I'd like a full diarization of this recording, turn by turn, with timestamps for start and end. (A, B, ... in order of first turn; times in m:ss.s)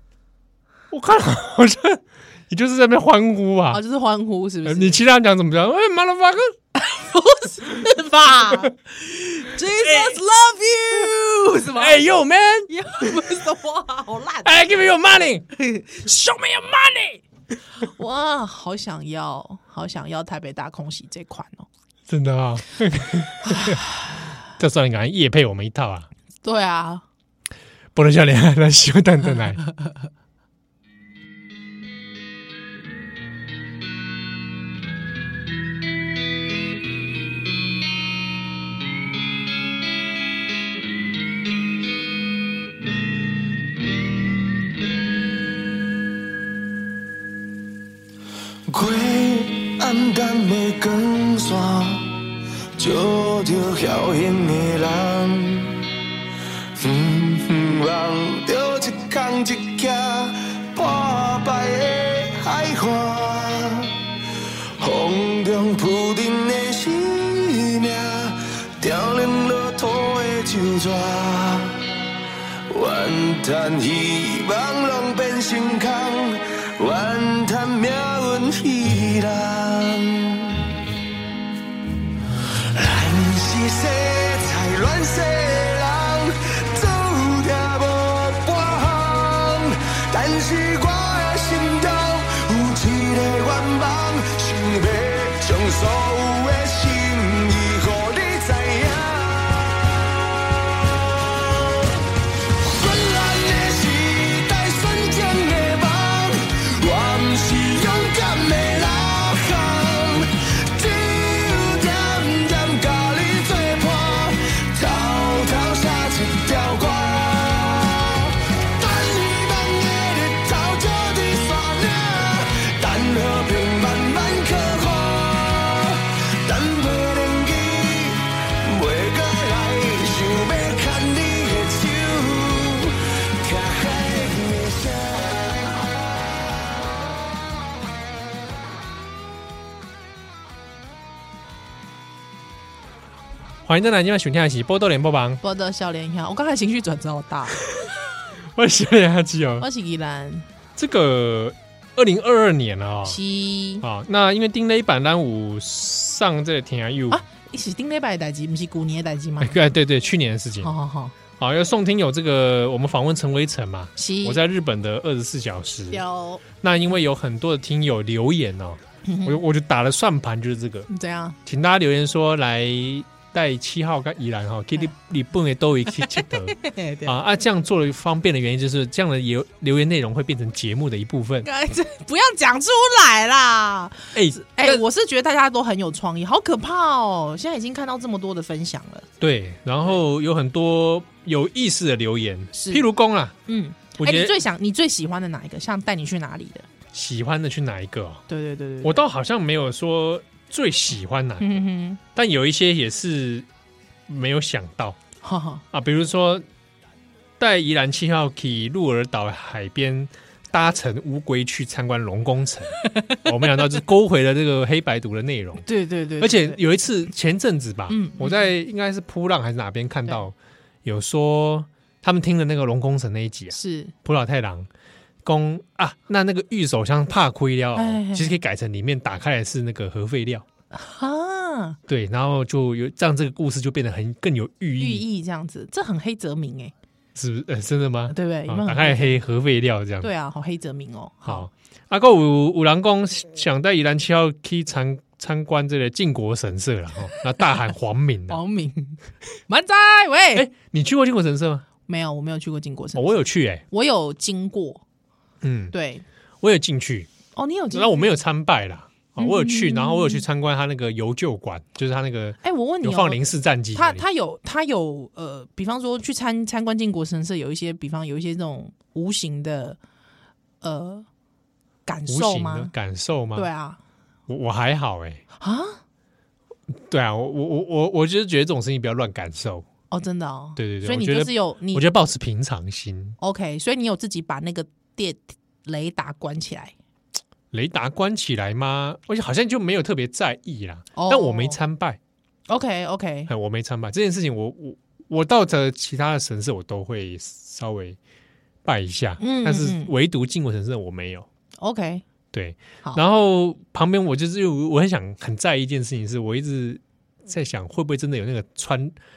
0:00.9-0:03.8 A
0:03.7-0:05.0 B
0:04.6-0:06.5 A
0:06.7-0:12.0 B
0:09.7-0:10.2 A
0:11.6-0:13.1 A
0:12.7-0:14.6 B
0:14.4-0:15.4 A
0:15.5-0:17.2 B
0:17.8-0:21.7 B
0:22.1-0:23.8 A
0:23.4-0:23.8 B
0:24.5-0:26.1 A
0:26.4-0:27.0 B
0:27.9-0:29.6 A
0:48.7-0:52.2 C
0:52.8-0:55.8 C
0:56.8-1:04.0 C
1:04.8-1:11.9 C
1:12.7-1:20.7 C
1:22.6-1:39.8 C
1:40.8-2:15.7 C
2:23.6-2:25.4 A
2:25.4-2:27.6 B
2:28.5-2:29.7 A
2:29.6-2:30.4 B
2:30.8-2:33.2 A
2:33.0-2:33.8 B
2:33.8-2:37.2 A
2:37.1-2:39.6 B
2:39.4-2:40.7 A
2:40.6-2:41.1 B
2:41.4-2:46.0 A
2:44.0-2:44.4 B
2:45.9-2:46.4 B
2:46.6-2:50.9 A
2:49.0-2:49.4 B
2:50.9-2:51.4 B
2:51.4-3:01.5 A
2:56.0-2:57.1 B
3:01.4-3:09.0 B
3:04.1-3:04.8 A
3:09.2-3:13.3 A
3:12.5-3:12.8 B
3:13.4-3:16.7 B
3:14.0-3:14.3 A
3:16.9-3:18.2 A
3:18.3-3:19.0 B
3:18.8-3:21.6 A
3:21.4-3:22.0 B
3:22.1-3:23.4 A
3:24.1-3:25.0 A
3:25.2-3:25.6 B
3:25.7-3:26.4 A
3:27.4-3:35.6 A
3:35.6-3:36.6 B
3:36.2-3:44.7 A
3:37.9-3:38.5 B
3:43.5-3:43.9 B
3:45.2-3:50.4 A
3:47.8-3:48.4 B
3:50.7-3:51.8 B
3:51.9-3:55.0 A
3:54.8-3:56.7 B
3:57.2-4:00.1 A
3:58.1-3:59.2 B
4:00.0-4:01.5 B
4:01.2-4:08.4 A
4:08.3-4:10.4 B
4:10.3-4:11.6 A
4:11.9-4:14.8 B
4:12.9-4:13.6 A
4:15.4-4:15.7 A
4:15.7-4:16.0 B
4:16.4-4:17.1 A
4:17.3-4:18.1 B
4:17.7-4:24.0 A
4:19.2-4:20.2 B
4:22.4-4:23.2 B
4:23.7-4:29.8 B
4:30.6-4:31.1 B
4:31.8-4:32.7 B
4:32.1-4:33.5 A
4:33.4-4:33.8 B
4:34.3-4:35.2 A
4:35.4-4:35.8 B
4:36.9-4:39.6 A
4:39.9-4:41.8 B
4:40.6-4:43.2 A
4:43.2-4:46.7 B
4:47.5-4:52.0 A
4:50.9-4:51.6 B
4:52.5-4:53.3 B
4:53.3-4:58.0 A
4:58.6-5:01.3 A
4:59.2-4:59.9 B
5:01.6-5:02.0 B
5:02.3-5:08.9 A